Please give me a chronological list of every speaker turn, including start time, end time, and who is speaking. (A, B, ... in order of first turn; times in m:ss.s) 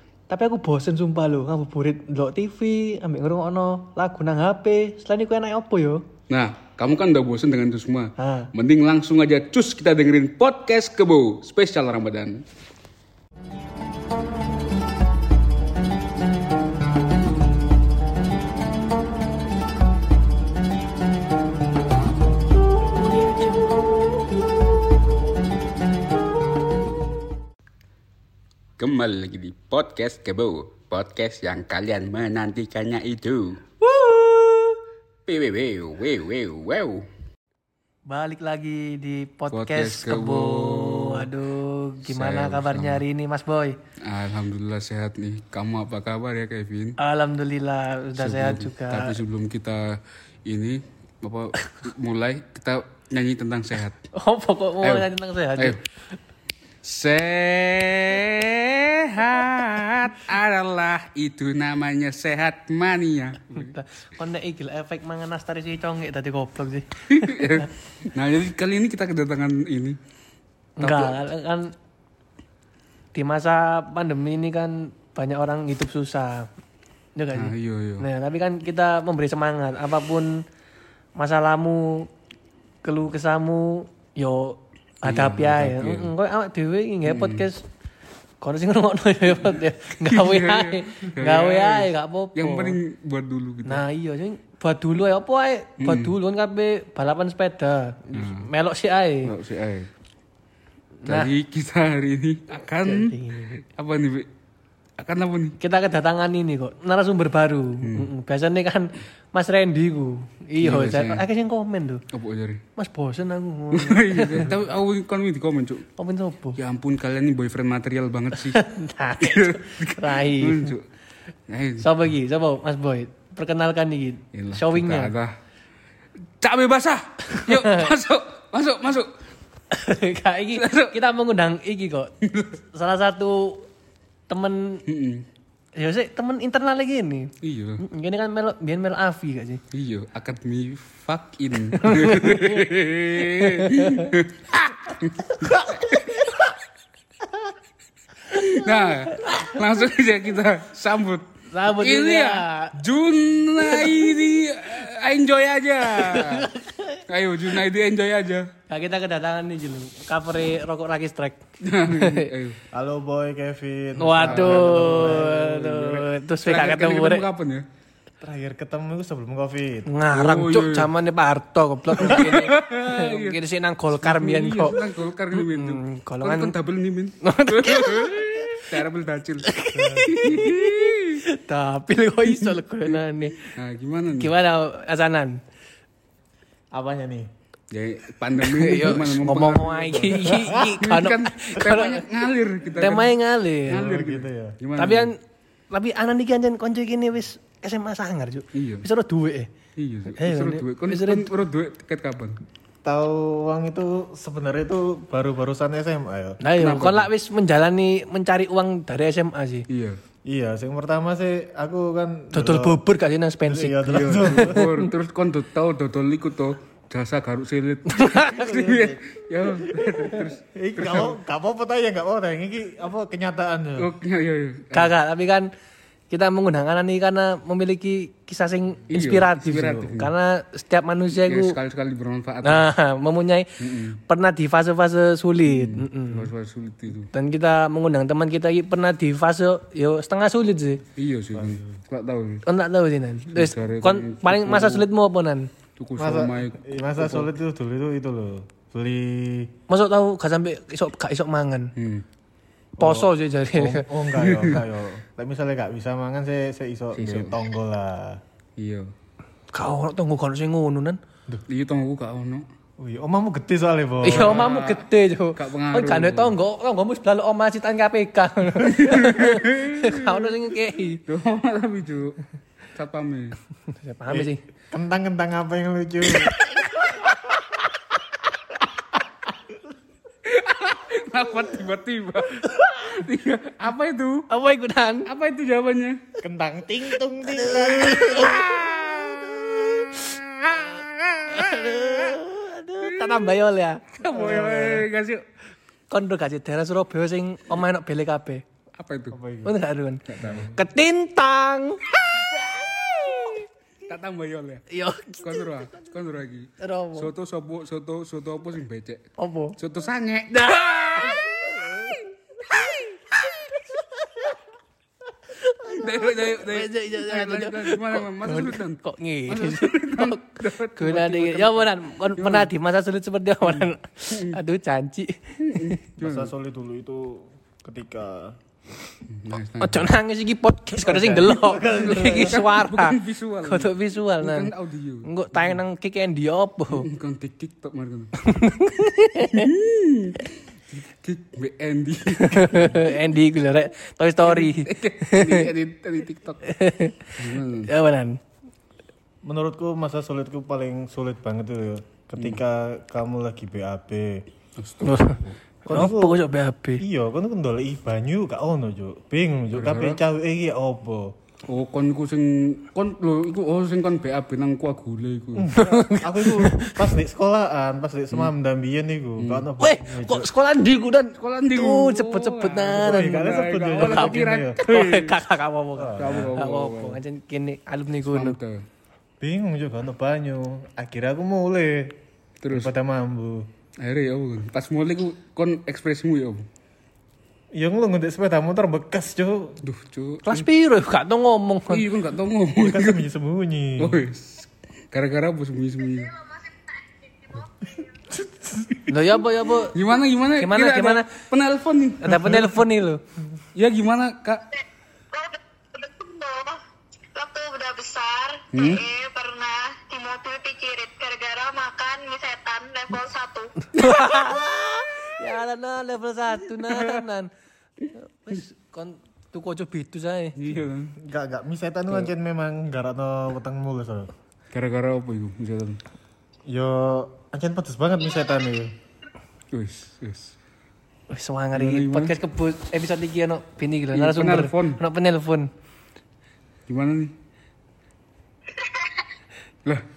0:00.3-0:06.0 A
0:06.3-0:12.4 B
0:08.2-0:08.5 A
0:28.8-0:33.6 B
0:33.8-0:34.7 A
0:35.3-0:37.0 B
0:38.1-0:43.8 A
0:39.5-0:41.3 B
0:42.0-0:43.0 B
0:44.0-0:47.0 B
0:47.0-0:49.2 A
0:48.2-0:54.0 B
0:54.1-0:55.8 A
0:54.8-0:55.8 B
0:56.8-1:03.7 B
1:03.6-1:07.6 A
1:07.1-1:10.0 B
1:10.8-1:11.7 A
1:10.8-1:11.2 B
1:13.1-1:16.5 A
1:17.2-1:20.4 A
1:17.3-1:18.0 B
1:21.2-1:22.1 A
1:22.8-1:27.6 A
1:25.0-1:26.1 B
1:27.0-1:27.4 B
1:28.4-1:32.8 A
1:30.0-1:33.8 B
1:33.6-1:39.3 A
1:35.8-1:36.2 B
1:38.1-1:38.5 B
1:39.2-1:39.9 B
1:41.0-1:41.3 A
1:41.0-1:44.3 B
1:42.8-1:43.5 A
1:45.0-1:45.6 B
1:45.6-1:52.0 A
1:47.8-1:48.1 B
1:50.6-1:51.2 B
1:52.1-1:52.6 B
1:52.8-1:54.5 A
1:53.7-1:55.8 B
1:56.0-1:56.6 A
1:56.6-1:58.6 B
1:58.5-2:00.7 A
1:59.2-2:00.8 B
2:01.5-2:01.9 B
2:01.8-2:05.1 A
2:04.3-2:05.3 B
2:06.4-2:09.1 B
2:07.4-2:07.8 A
2:09.7-2:12.1 A
2:10.5-2:10.9 B
2:12.2-2:12.5 B
2:12.7-2:13.7 A
2:14.3-2:14.8 A
2:14.9-2:15.2 B
2:15.7-2:19.6 A
2:17.4-2:17.8 B
2:19.7-2:26.2 B
2:21.8-2:22.5 A
2:23.5-2:24.0 A
2:25.5-2:26.0 A
2:28.3-2:36.5 B
2:31.5-2:32.8 A
2:35.9-2:37.0 A
2:37.1-2:38.5 B
2:38.7-2:42.3 A
2:41.6-2:42.6 B
2:42.7-2:45.5 C
2:44.0-2:47.2 A
2:44.2-2:47.6 B
2:48.2-2:49.9 C
2:49.8-2:54.8 A
2:50.1-2:50.9 B
2:51.9-2:53.4 B
2:53.9-2:59.5 B
2:55.3-2:56.5 A
2:57.2-2:58.7 A
2:59.4-3:03.5 A
2:59.7-3:00.5 C
3:00.0-3:01.2 B
3:02.9-3:04.3 B
3:04.1-3:05.4 A
3:06.7-3:07.3 C
3:07.7-3:15.1 B
3:08.4-3:12.0 A
3:12.8-3:13.8 A
3:13.7-3:14.6 C
3:14.8-3:15.2 A
3:15.7-3:19.5 A
3:18.5-3:18.8 B
3:19.8-3:22.4 B
3:20.1-3:21.3 A
3:22.8-3:26.4 C
3:26.4-3:29.6 A
3:26.6-3:27.1 B
3:29.7-3:30.0 B
3:30.2-3:32.8 C
3:32.3-3:34.9 A
3:33.4-3:34.7 C
3:33.9-3:41.1 B
3:37.9-3:38.4 A
3:38.3-3:39.2 C
3:39.7-3:43.9 C
3:43.8-3:44.9 B
3:44.7-3:45.5 A
3:46.1-3:51.6 A
3:48.9-3:50.1 B
3:51.1-3:52.7 B
3:52.4-3:53.5 A
3:53.6-3:54.0 B
3:54.1-3:56.3 A
3:55.4-3:57.1 B
3:57.1-4:00.8 A
4:01.0-4:02.4 B
4:01.4-4:01.6 C
4:02.4-4:05.5 A
4:03.3-4:04.9 B
4:05.8-4:07.3 B
4:06.0-4:09.5 C
4:09.7-4:11.7 A
4:11.8-4:12.0 B
4:12.8-4:13.9 A
4:12.8-4:18.2 C
4:14.2-4:14.6 B
4:16.9-4:17.3 B
4:18.6-4:18.9 B
4:19.5-4:21.0 A
4:21.5-4:22.4 B
4:22.8-4:24.4 C
4:24.0-4:31.0 A
4:24.1-4:26.3 B
4:28.6-4:30.3 B
4:31.0-4:32.2 B
4:32.7-4:33.4 B
4:33.7-4:34.4 A
4:34.1-4:36.4 C
4:36.2-4:37.0 A
4:40.2-4:44.3 B
4:44.3-4:45.1 A
4:45.0-4:46.0 B
4:46.2-4:48.5 C
4:47.5-4:48.6 A
4:48.1-4:52.2 B
4:49.7-4:50.0 A
4:51.3-4:54.0 A
4:52.8-4:53.4 B
4:54.0-4:55.2 B
4:54.1-4:54.8 C
4:55.9-4:58.4 A
4:58.8-4:59.2 B
4:59.1-4:59.6 C
4:59.4-5:03.4 A
5:00.1-5:00.5 B
5:00.2-5:00.5 C
5:03.9-5:09.0 B
5:04.7-5:05.5 A
5:06.6-5:07.1 A
5:09.2-5:09.6 A
5:09.6-5:12.0 B
5:10.9-5:11.5 A
5:15.3-5:25.8 A
5:15.7-5:22.5 B
5:23.5-5:24.4 B
5:25.5-5:26.3 B
5:26.0-5:28.4 C
5:29.1-5:29.9 B
5:29.6-5:34.5 A
5:30.8-5:32.4 C
5:31.2-5:35.6 B
5:35.0-5:36.9 A
5:36.7-5:38.1 B
5:38.2-5:39.5 A
5:39.3-5:42.9 B
5:42.2-5:45.5 A
5:44.2-5:46.4 B
5:46.4-5:48.2 A
5:47.2-5:47.7 B
5:49.2-5:54.3 C
5:54.6-5:55.4 B
5:54.8-5:56.8 A
5:55.6-5:56.2 C
5:56.8-6:01.2 C
5:59.5-6:00.0 B
6:01.5-6:05.6 B
6:05.4-6:10.3 C
6:05.6-6:06.9 A
6:09.2-6:09.4 B
6:09.6-6:18.4 A
6:11.1-6:15.2 B
6:12.8-6:14.6 C
6:15.8-6:16.4 C
6:16.0-6:17.0 B
6:18.0-6:18.6 B
6:19.2-6:22.0 C
6:22.4-6:22.7 B
6:22.5-6:23.5 C
6:23.8-6:26.4 B
6:27.5-6:29.6 C
6:29.6-6:30.4 B
6:30.2-6:31.8 A
6:31.7-6:33.0 B
6:32.6-6:34.0 C
6:33.8-6:36.1 B
6:38.9-6:39.8 A
6:39.7-6:42.6 B
6:40.4-6:41.1 A
6:42.0-6:43.0 A
6:43.5-6:44.4 B
6:45.1-6:46.6 D
6:47.1-6:53.5 D
6:48.5-6:48.8 B
6:53.7-6:57.3 A
6:56.6-6:57.0 B
6:57.9-7:00.4 A
7:00.4-7:00.9 B
7:01.0-7:04.1 C
7:04.5-7:05.8 B
7:06.5-7:08.7 C
7:09.5-7:10.3 B
7:11.1-7:15.5 A
7:11.5-7:12.1 B
7:13.9-7:14.8 B
7:16.7-7:17.1 B